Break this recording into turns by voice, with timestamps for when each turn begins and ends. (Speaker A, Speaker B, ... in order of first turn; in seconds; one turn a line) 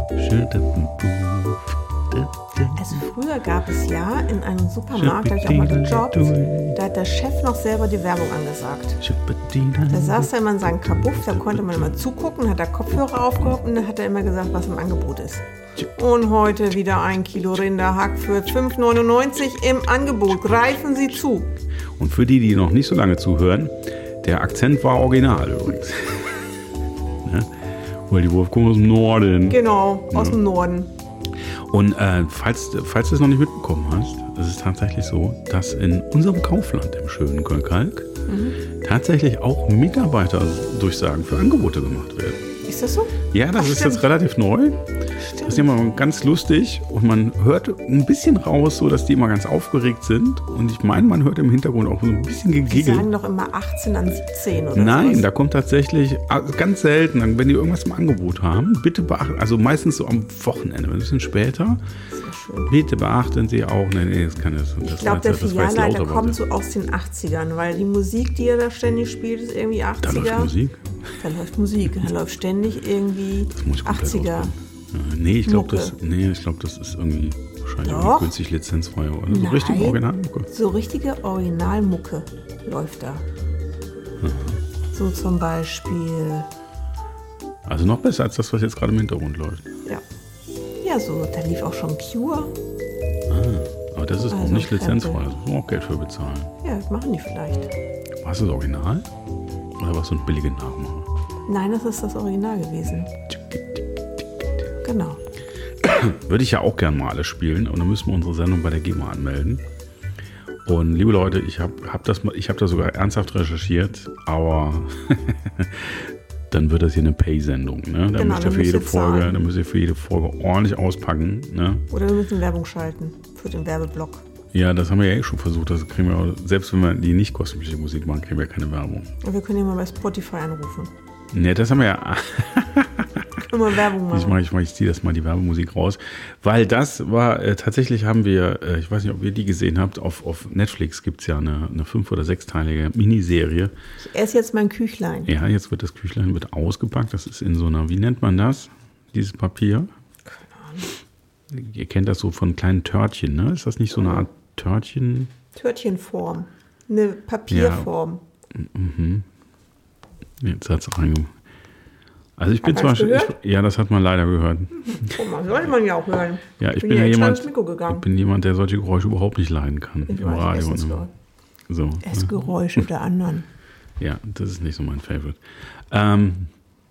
Speaker A: 0.1-3.0
Speaker B: 2.8-9.0
Speaker A: 4.9-6.8
Speaker A: 9.0-10.3
Speaker B: 9.9-21.5
Speaker A: 10.8-12.0
Speaker A: 22.0-26.5
Speaker A: 27.2-27.5
Speaker A: 28.1-30.4
Speaker B: 29.5-30.9
Speaker A: 31.7-38.1
Speaker B: 38.3-38.6
Speaker A: 38.8-42.5
Speaker B: 42.7-44.1
Speaker A: 43.3-44.8
Speaker B: 45.2-45.7
Speaker A: 45.4-53.1
Speaker B: 52.7-55.3
Speaker A: 54.7-61.8
Speaker B: 62.1-62.7
Speaker A: 62.7-66.4
Speaker B: 64.8-70.5
Speaker A: 70.0-71.1
Speaker B: 71.2-74.5
Speaker A: 73.5-80.5
Speaker B: 75.5-76.0
Speaker B: 77.8-78.3
Speaker B: 79.3-83.3
Speaker A: 84.2-84.6
Speaker B: 84.9-86.5
Speaker A: 87.7-89.7
Speaker B: 90.8-92.5
Speaker A: 93.3-96.5
Speaker B: 94.3-95.2
Speaker B: 96.6-97.7
Speaker A: 98.2-99.1
Speaker A: 99.8-101.1
Speaker B: 101.5-103.1
Speaker A: 103.3-103.8
Speaker B: 104.8-105.2
Speaker A: 105.8-109.6
Speaker A: 110.7-121.9
Speaker B: 118.1-119.4
Speaker B: 121.9-124.2
Speaker A: 124.5-129.1
Speaker B: 129.2-130.9
Speaker A: 131.3-133.5
Speaker B: 133.5-134.4
Speaker A: 134.1-143.7
Speaker B: 144.0-145.3
Speaker A: 145.3-149.9
Speaker B: 150.3-150.9
Speaker A: 151.5-155.3
Speaker B: 155.6-158.2
Speaker A: 157.5-157.9
Speaker A: 158.5-159.3
Speaker A: 160.4-161.3
Speaker A: 162.4-165.2
Speaker B: 162.6-163.4
Speaker B: 164.8-168.1
Speaker A: 166.6-171.1
Speaker B: 170.1-171.1
Speaker A: 171.7-172.8
Speaker B: 172.0-173.5
Speaker A: 174.0-176.5